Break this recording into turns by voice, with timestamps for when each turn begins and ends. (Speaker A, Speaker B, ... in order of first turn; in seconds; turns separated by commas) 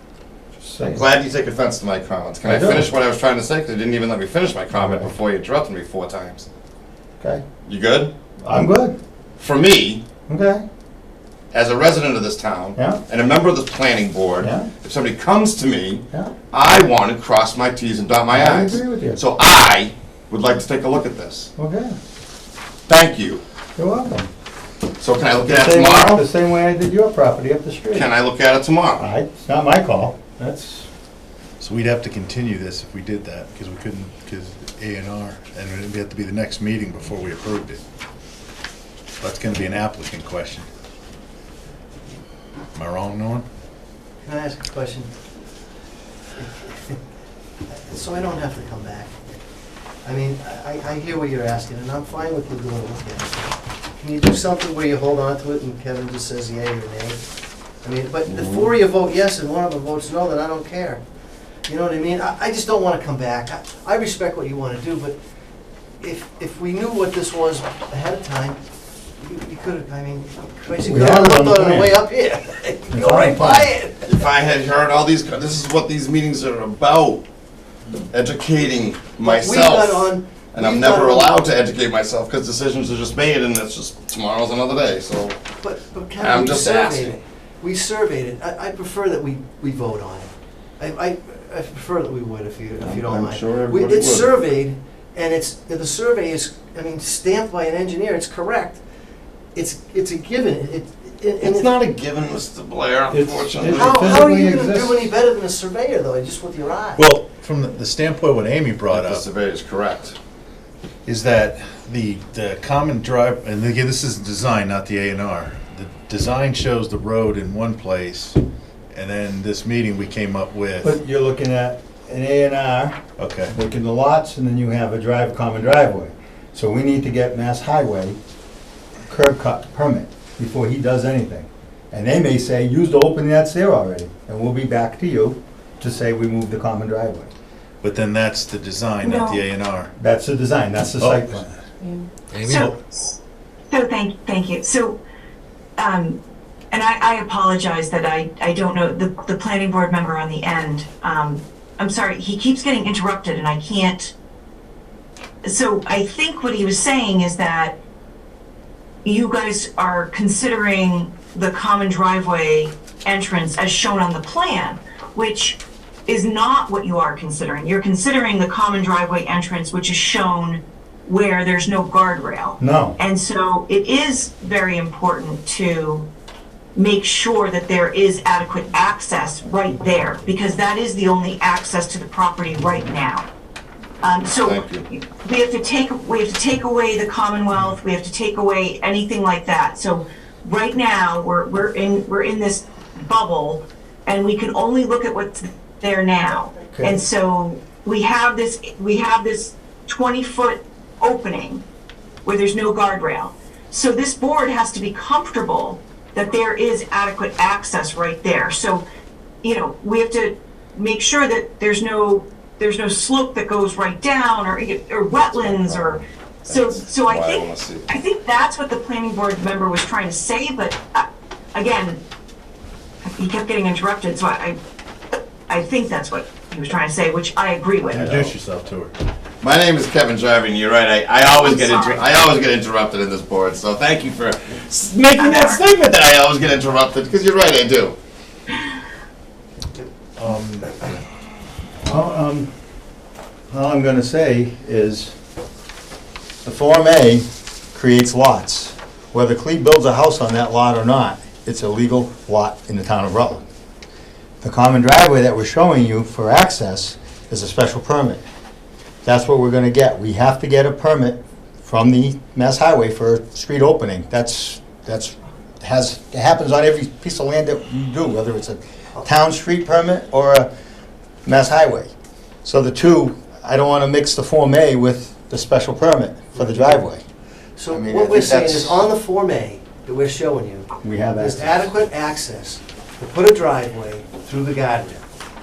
Speaker A: 0.6-1.1, Speaker B: 0.8-6.5, Speaker A: 2.4-2.9, Speaker A: 4.8-5.1, Speaker B: 7.7-8.1, Speaker A: 8.4-9.0, Speaker B: 9.4-10.0, Speaker A: 10.3-10.6, Speaker B: 11.5-21.5, Speaker A: 12.8-13.0, Speaker A: 14.4-14.7, Speaker A: 18.3-19.2, Speaker A: 21.6-21.9, Speaker B: 22.9-23.4, Speaker A: 23.8-24.3, Speaker B: 25.0-26.2, Speaker A: 25.4-28.1, Speaker B: 27.9-29.1, Speaker A: 29.0-30.9, Speaker C: 31.6-37.8, Speaker C: 39.2-40.7, Speaker C: 42.8-43.5, Speaker D: 44.2-45.1, Speaker D: 46.4-47.0, Speaker D: 47.7-49.2, Speaker D: 50.0-57.2, Speaker D: 57.8-61.0, Speaker B: 58.3-58.7, Speaker D: 61.7-65.2, Speaker D: 66.0-68.6, Speaker D: 69.2-74.0, Speaker A: 70.8-72.1, Speaker A: 72.9-73.7, Speaker B: 74.0-77.3, Speaker B: 78.1-85.4, Speaker D: 79.2-81.5, Speaker D: 85.6-98.8, Speaker B: 86.2-87.2, Speaker B: 92.8-94.4, Speaker D: 99.5-101.7, Speaker B: 101.4-104.3, Speaker A: 103.1-105.1, Speaker D: 103.7-107.0, Speaker C: 107.0-109.2, Speaker B: 108.9-110.2, Speaker C: 111.1-118.4, Speaker C: 118.9-121.0, Speaker A: 120.8-123.0, Speaker C: 123.2-123.5, Speaker A: 123.5-128.2, Speaker A: 129.1-137.3, Speaker C: 137.8-139.9, Speaker E: 139.0-139.4, Speaker A: 140.0-141.6, Speaker C: 141.0-141.4, Speaker C: 142.4-142.7, Speaker E: 142.4-143.1, Speaker E: 143.7-145.0, Speaker E: 145.8-154.1, Speaker E: 155.4-157.8, Speaker E: 159.1-176.1, Speaker A: 172.6-173.0, Speaker E: 176.8-183.3, Speaker E: 184.0-201.6, Speaker B: 184.4-184.9, Speaker A: 196.7-197.0, Speaker E: 202.2-208.8, Speaker E: 209.4-222.0, Speaker B: 215.3-217.9, Speaker E: 223.0-224.6, Speaker E: 225.5-228.3, Speaker C: 227.9-228.9, Speaker B: 229.4-238.0, Speaker E: 231.2-232.0, Speaker E: 235.2-235.6, Speaker C: 240.2-240.9, Speaker A: 241.9-242.5, Speaker A: 243.5-245.2, Speaker A: 246.4-253.5, Speaker A: 254.4-258.2, Speaker A: 259.0-270.5, Speaker A: 271.2-271.9, Speaker A: 272.4-277.0, Speaker D: 277.6-285.1, Speaker B: 277.7-278.7, Speaker A: 280.8-281.7